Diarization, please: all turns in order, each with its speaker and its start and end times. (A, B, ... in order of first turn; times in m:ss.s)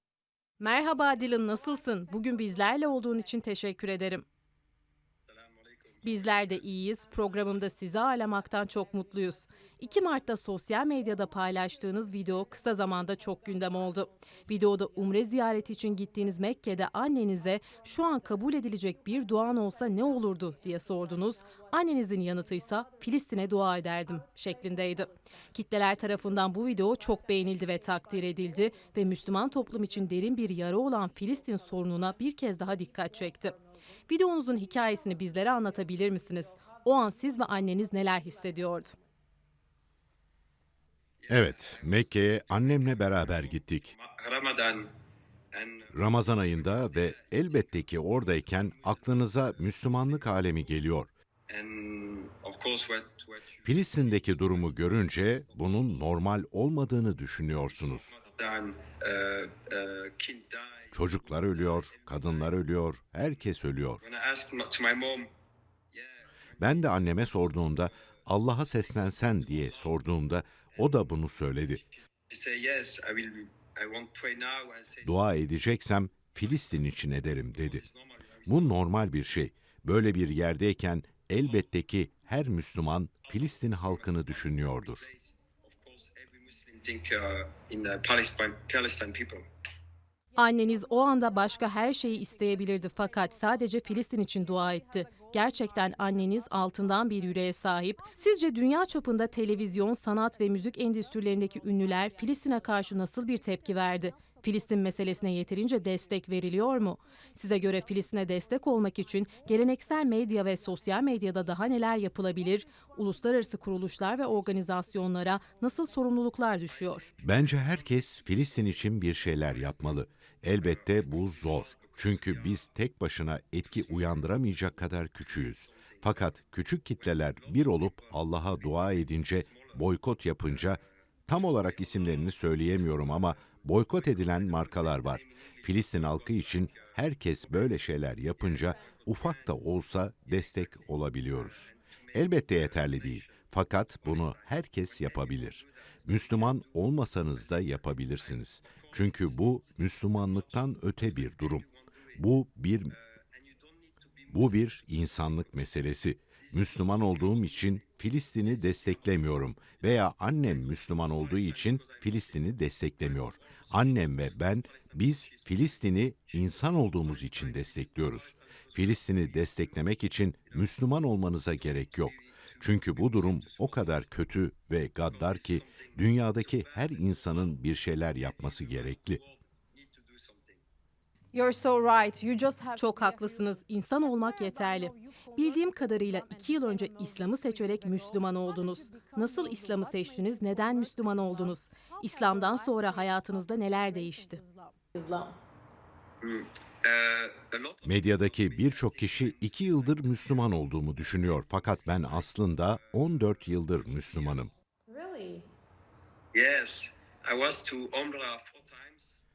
0:00.6-0:04.2 A
0:06.0-0:33.6 A
0:34.1-0:39.0 A
0:41.2-0:44.9 B
0:41.3-0:43.9 C
0:45.5-0:50.3 B
0:45.9-0:51.1 C
0:51.5-0:55.8 B
0:53.6-0:58.1 C
0:57.6-1:02.5 B
1:00.9-1:04.0 C
1:04.0-1:05.3 B
1:05.9-1:06.9 B
1:06.6-1:11.8 C
1:09.3-1:10.0 B
1:10.8-1:11.1 B
1:12.3-1:15.2 B
1:15.0-1:17.8 C
1:17.5-1:18.7 B
1:18.4-1:25.0 C
1:23.3-1:29.4 B
1:30.4-1:57.1 A
1:57.1-1:58.1 B
1:57.2-2:32.9 C
1:59.4-1:59.8 B
2:00.6-2:02.7 B
2:03.7-2:04.2 B
2:05.4-2:06.3 B
2:07.1-2:09.8 B
2:10.5-2:10.8 B
2:11.6-2:12.4 B
2:12.9-2:19.7 B
2:20.3-2:32.3 B
2:32.9-2:34.5 B
2:34.3-2:59.2 C
2:36.5-2:37.8 B
2:38.4-2:39.6 B
2:40.5-2:45.7 B
2:46.3-2:49.8 B
2:51.6-2:54.1 B
2:55.0-3:00.6 B
3:01.3-3:15.3 D
3:02.8-3:14.4 A
3:16.2-3:22.2 B
3:17.8-3:24.5 C
3:23.9-3:24.5 B
3:24.9-3:25.4 D
3:26.3-3:29.1 B